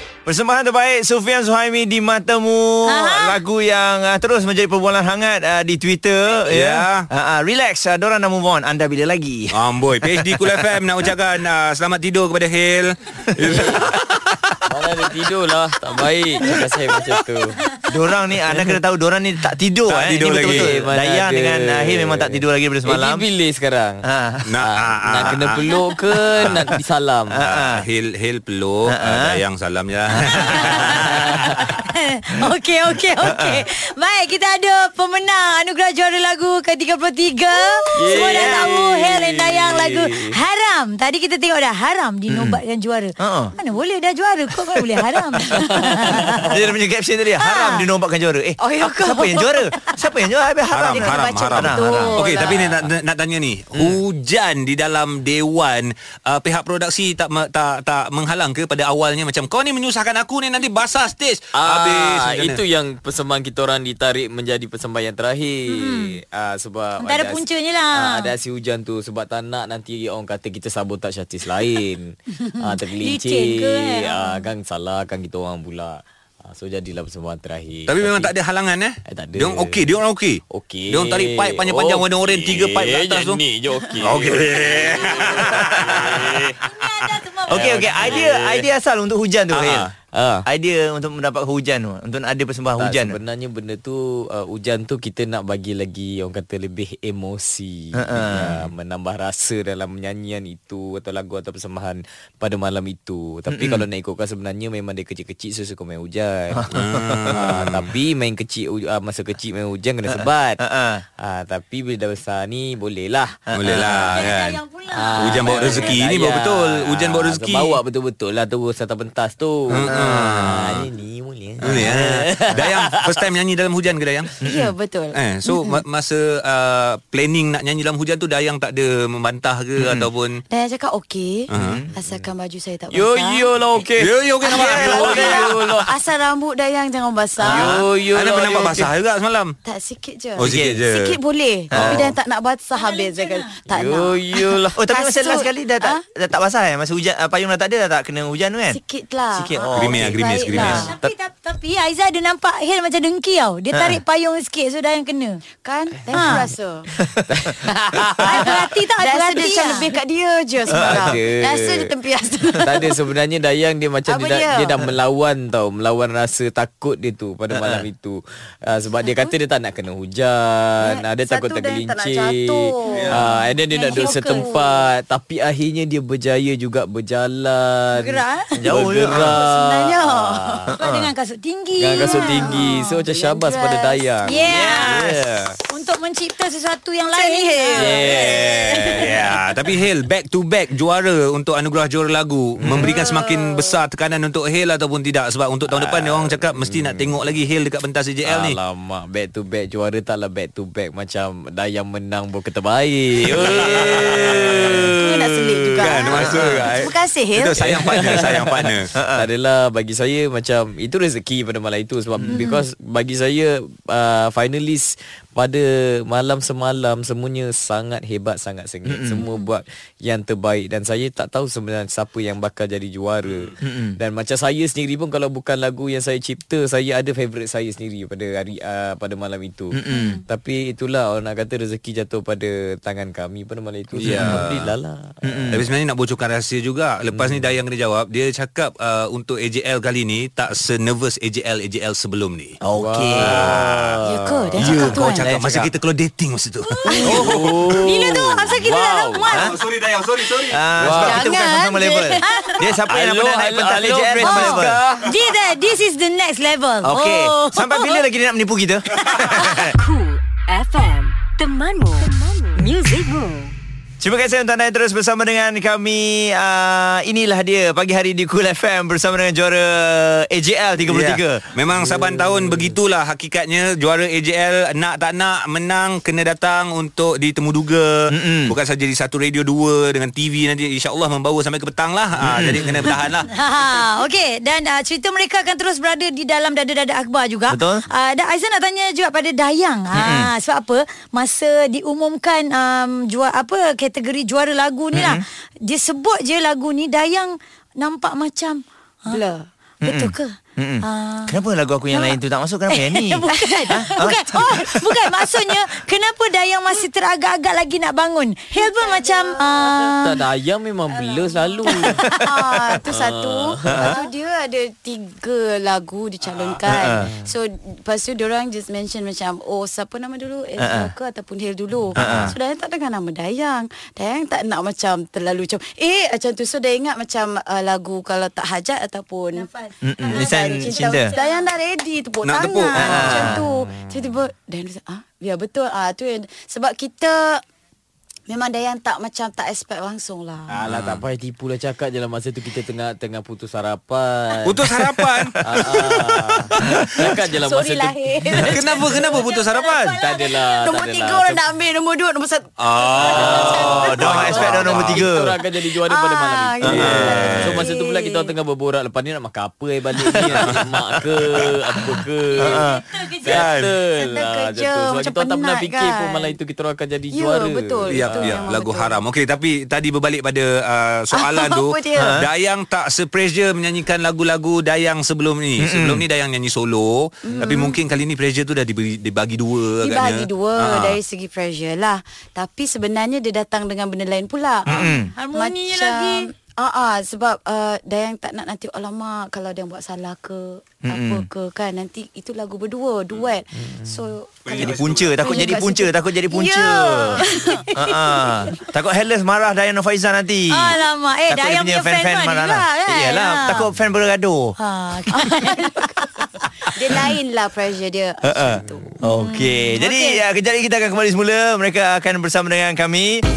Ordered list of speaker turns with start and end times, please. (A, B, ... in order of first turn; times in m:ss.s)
0:00.3-0:10.6 A
0:02.9-0:03.4 B
0:06.5-0:07.1 C
0:09.5-0:14.5 C
0:13.4-0:14.0 D
0:14.7-0:17.6 D
0:17.9-0:23.2 A
0:18.5-0:18.8 D
0:19.9-0:20.8 C
0:20.4-0:24.0 D
0:24.1-0:24.5 A
0:24.5-0:25.6 C
0:24.6-0:27.4 D
0:26.4-0:26.6 C
0:27.3-0:27.8 A
0:27.4-0:31.2 C
0:28.9-0:29.4 A
0:30.2-0:31.2 A
0:30.3-0:31.0 B
0:31.0-0:31.5 D
0:31.5-0:46.5 B
0:33.2-0:33.6 A
0:37.9-0:40.4 D
0:38.1-0:38.7 A
0:42.3-0:42.6 A
0:43.2-0:43.5 A
0:45.6-0:46.6 D
0:46.5-0:52.4 A
0:47.4-0:47.9 B
0:48.6-0:49.4 E
0:49.4-0:49.9 B
0:50.7-1:02.6 C
0:50.9-0:52.8 E
1:01.5-1:18.3 D
1:05.7-1:06.2 B
1:07.0-1:08.3 B
1:12.4-1:14.4 B
1:17.9-1:23.4 C
1:19.1-1:19.8 D
1:20.5-1:26.6 D
1:24.0-1:26.5 C
1:26.6-1:28.3 B
1:27.5-1:29.9 A
1:27.5-1:28.7 D
1:29.6-1:30.5 D
1:30.5-1:33.2 A
1:32.8-1:46.7 D
1:38.0-1:38.7 A
1:43.5-1:43.8 A
1:46.5-1:47.5 A
1:46.7-1:47.9 C
1:47.3-1:50.6 D
1:50.2-1:51.0 A
1:51.2-1:54.3 D
1:53.5-1:54.6 C
1:54.1-1:56.0 B
1:54.9-2:03.2 D
1:55.2-1:57.8 C
1:59.7-2:00.9 C
1:59.9-2:00.4 A
2:01.6-2:04.4 C
2:04.4-2:05.8 E
2:04.4-2:04.7 A
2:05.1-2:10.4 C
2:09.8-2:10.1 A
2:10.5-2:13.5 E
2:11.5-2:11.8 C
2:11.6-2:11.9 A
2:11.6-2:12.3 D
2:12.9-2:15.9 D
2:14.0-2:15.8 C
2:14.4-2:17.8 E
2:14.5-2:15.5 A
2:17.4-2:18.9 D
2:17.5-2:19.6 C
2:19.6-2:26.0 E
2:20.4-2:21.2 C
2:20.4-2:20.8 A
2:21.7-2:22.1 C
2:21.7-2:22.0 A
2:21.8-2:22.1 D
2:22.8-2:23.6 B
2:23.7-2:24.8 D
2:24.8-2:28.8 A
2:28.7-2:31.0 E
2:29.3-2:30.7 A
2:29.7-2:30.9 C
2:30.5-2:35.4 B
2:35.6-2:36.9 E
2:36.0-2:36.4 D
2:36.1-2:36.5 B
2:37.3-2:38.6 D
2:38.2-2:43.0 E
2:38.3-2:39.9 B
2:40.7-2:41.9 D
2:40.8-2:41.2 A
2:42.6-3:00.7 D
2:44.1-2:44.8 E
2:47.5-2:47.8 A
2:49.0-2:49.3 E
2:50.8-2:54.8 E
2:52.9-2:53.2 C
2:53.1-2:54.5 B
2:58.0-2:58.7 B
2:58.6-2:59.4 A
2:59.1-3:00.6 E
3:00.7-3:01.1 A
3:00.8-3:02.8 B
3:01.8-3:05.6 D
3:02.0-3:04.3 E
3:04.2-3:05.0 B
3:04.4-3:05.5 A
3:05.7-3:08.2 B
3:07.0-3:09.0 E
3:07.8-3:09.3 D
3:08.2-3:18.6 C
3:12.6-3:13.0 D
3:12.7-3:13.8 E
3:15.7-3:17.2 D
3:18.3-3:26.8 D
3:23.2-3:24.9 C
3:23.6-3:27.8 E
3:25.8-3:28.9 C
3:27.6-3:55.7 D
3:29.0-3:29.3 A
3:32.3-3:32.6 B
3:38.9-3:39.2 A
3:39.2-3:39.5 B
3:43.3-3:43.5 C
3:43.6-3:44.0 A
3:49.8-3:50.2 A
3:49.9-3:50.2 E
3:54.0-3:54.7 C
3:55.2-3:55.6 A
3:55.5-4:02.6 C
3:57.1-3:57.6 D
4:02.6-4:03.7 A
4:02.7-4:05.0 D
4:03.2-4:04.0 C
4:04.1-4:05.3 E
4:04.6-4:07.8 C
4:04.6-4:05.7 A
4:06.7-4:07.3 B
4:06.9-4:07.3 E
4:07.0-4:09.4 D
4:07.8-4:09.5 B
4:09.3-4:09.6 A
4:09.3-4:10.9 C
4:10.5-4:14.8 A
4:10.8-4:11.4 D
4:10.9-4:12.7 E
4:12.2-4:12.6 B
4:12.9-4:15.2 D
4:14.2-4:18.0 B
4:16.8-4:19.8 A
4:19.1-4:19.6 B
4:19.8-4:23.5 F
4:24.0-4:31.5 A
4:30.8-4:43.3 C
4:31.7-4:32.8 D
4:38.1-4:38.5 A
4:42.2-4:42.8 A
4:43.3-4:59.2 B
4:47.5-4:47.9 A
4:49.9-4:50.3 A
4:54.9-4:55.2 A
4:59.1-4:59.5 E
4:59.8-5:01.4 B
4:59.8-5:04.7 A
5:01.9-5:02.2 B
5:02.7-5:10.2 B
5:03.3-5:03.9 E
5:08.5-5:09.7 E
5:09.9-5:12.2 D
5:10.9-5:29.5 E
5:11.6-5:12.3 B
5:12.8-5:13.9 D
5:13.7-5:13.9 A
5:16.6-5:17.0 A
5:16.7-5:17.3 D
5:20.6-5:20.9 A
5:22.0-5:22.3 A
5:29.3-5:31.5 B
5:29.8-5:31.1 A
5:30.1-5:37.4 E
5:32.2-5:33.3 C
5:32.5-5:33.2 B
5:32.8-5:33.4 A
5:33.2-5:34.1 D
5:38.3-5:40.6 E
5:40.5-5:44.6 D
5:40.6-5:41.0 C
5:44.4-5:46.8 C
5:45.0-5:45.8 A
5:45.4-5:48.5 D
5:46.6-5:47.0 A
5:47.3-5:49.2 E
5:48.4-5:50.0 C
5:48.4-5:50.6 B
5:49.9-5:51.5 D
5:50.3-5:53.9 E
5:52.6-5:55.1 C
5:53.0-6:08.4 D
5:53.4-5:55.4 A
5:55.9-5:56.5 B
5:56.0-5:58.3 E
5:56.6-5:57.7 C
5:56.6-5:57.4 A
6:00.2-6:00.6 C
6:02.4-6:03.4 B
6:02.4-6:02.8 A
6:03.3-6:03.7 C
6:04.0-6:06.3 E
6:07.1-6:09.0 E
6:07.9-6:21.0 C
6:11.1-6:12.2 E
6:12.0-6:12.2 A
6:15.6-6:16.0 A
6:17.2-6:17.8 E
6:19.8-6:37.7 E
6:24.7-6:25.1 A
6:24.7-6:26.3 B
6:30.8-6:31.2 A
6:33.5-6:34.1 D
6:34.4-6:35.2 C
6:34.6-6:37.2 A
6:37.2-6:37.4 B
6:37.8-6:40.8 A
6:40.5-6:43.7 B
6:41.3-6:44.6 A
6:44.6-6:46.3 B
6:46.7-6:48.9 E
6:48.2-6:53.2 A
6:49.1-6:49.9 B
6:49.8-6:50.2 E